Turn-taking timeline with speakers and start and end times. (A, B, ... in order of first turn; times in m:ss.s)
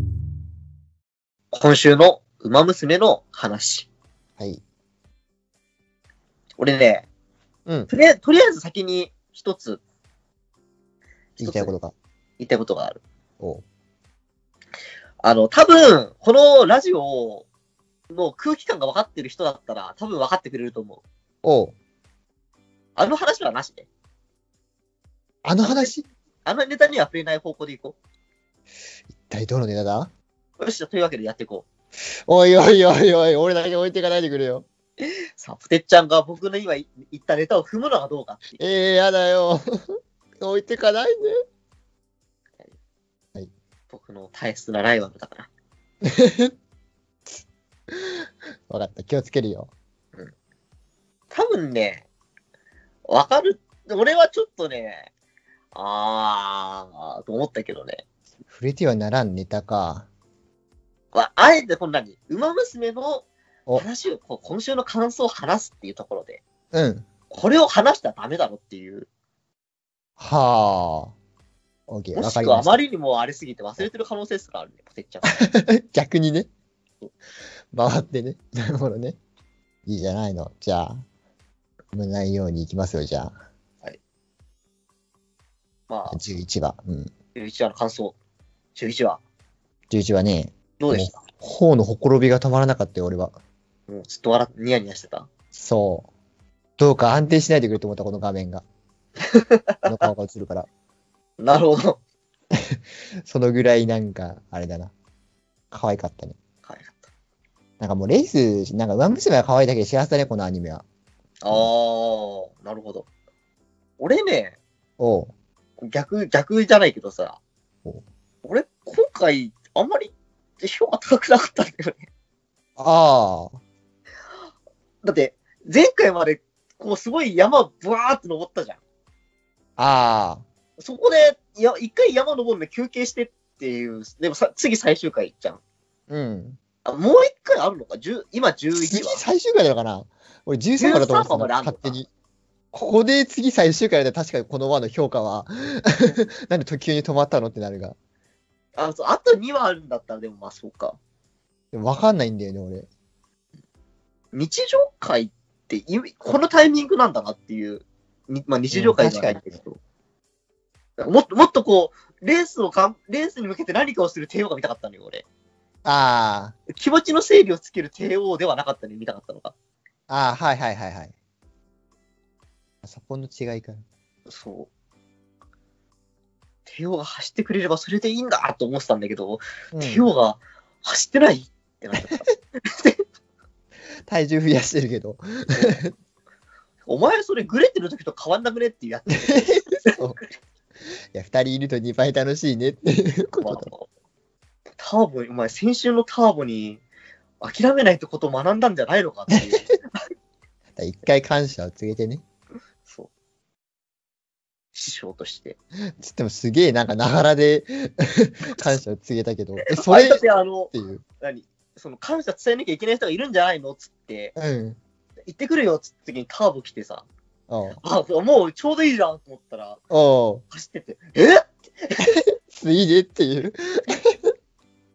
0:01.5-0:03.9 A
0:06.6-0:07.1 A
0:07.9-0:09.8 A
0:11.4-0:11.7 A
0:11.4-0:11.9 B
0:12.4-0:13.0 A
0:15.2-0:17.5 A
0:18.1-0:21.0 A
0:21.4-0:21.8 B
0:23.0-0:23.9 A
0:25.4-0:26.1 B
0:25.6-0:25.9 A
0:26.4-0:28.0 A
0:29.2-0:30.1 B
0:30.6-0:31.7 A
0:32.1-0:34.7 B
0:35.0-0:38.6 A
0:38.6-0:39.8 B
0:40.4-0:41.3 B
0:43.9-0:45.5 A
0:46.0-0:46.5 B
0:47.9-0:49.7 B
0:51.3-0:52.1 A
0:53.1-0:55.1 A
0:55.7-0:58.0 A
0:58.5-1:00.1 B
1:01.1-1:06.4 A
1:06.7-1:07.1 B
1:07.3-1:09.1 A
1:10.2-1:11.2 B
1:11.9-1:12.8 B
1:12.2-1:15.3 A
1:15.3-1:16.5 B
1:17.7-1:19.2 B
1:19.9-1:21.0 B
1:21.9-1:23.4 B
1:25.9-1:26.2 A
1:26.1-1:27.1 B
1:27.4-1:28.2 A
1:28.8-1:29.2 A
1:29.9-1:33.4 B
1:30.8-1:31.2 A
1:33.9-1:35.3 A
1:35.5-1:36.1 B
1:36.8-1:38.6 B
1:39.3-1:39.9 A
1:39.8-1:40.7 B
1:41.4-1:42.0 A
1:42.5-1:44.9 B
1:45.7-1:46.4 B
1:46.7-1:47.1 A
1:47.8-1:50.8 B
1:51.4-1:53.1 A
1:54.0-1:54.6 A
1:55.0-1:55.3 B
1:55.8-1:57.4 A
1:58.4-2:02.1 A
2:02.8-2:03.5 B
2:05.0-2:08.8 A
2:09.8-2:10.4 B
2:10.8-2:15.6 A
2:16.1-2:16.6 B
2:16.8-2:19.2 A
2:18.7-2:22.1 B
2:20.8-2:22.0 A
2:22.7-2:28.0 B
2:28.8-2:31.0 A
2:31.7-2:32.9 B
2:34.3-2:39.8 A
2:38.7-2:39.6 B
2:41.0-2:45.2 A
2:45.8-2:46.6 B
2:46.7-2:49.5 A
2:50.1-2:51.1 B
2:52.8-2:53.8 B
2:54.3-2:54.7 A
2:56.7-3:03.0 A
2:59.7-3:00.1 B
3:04.1-3:05.9 B
3:05.5-3:05.8 A
3:06.9-3:10.0 A
3:09.3-3:10.2 B
3:11.1-3:13.7 B
3:13.4-3:13.9 A
3:14.8-3:16.8 A
3:17.4-3:19.8 A
3:19.3-3:19.6 B
3:20.8-3:22.2 B
3:24.7-3:25.6 A
3:26.0-3:31.0 B
3:29.7-3:34.4 A
3:34.4-3:34.8 B
3:35.3-3:37.1 A
3:37.5-3:37.8 B
3:37.8-3:39.8 A
3:39.9-3:40.4 B
3:40.5-3:42.1 A
3:42.5-3:44.2 B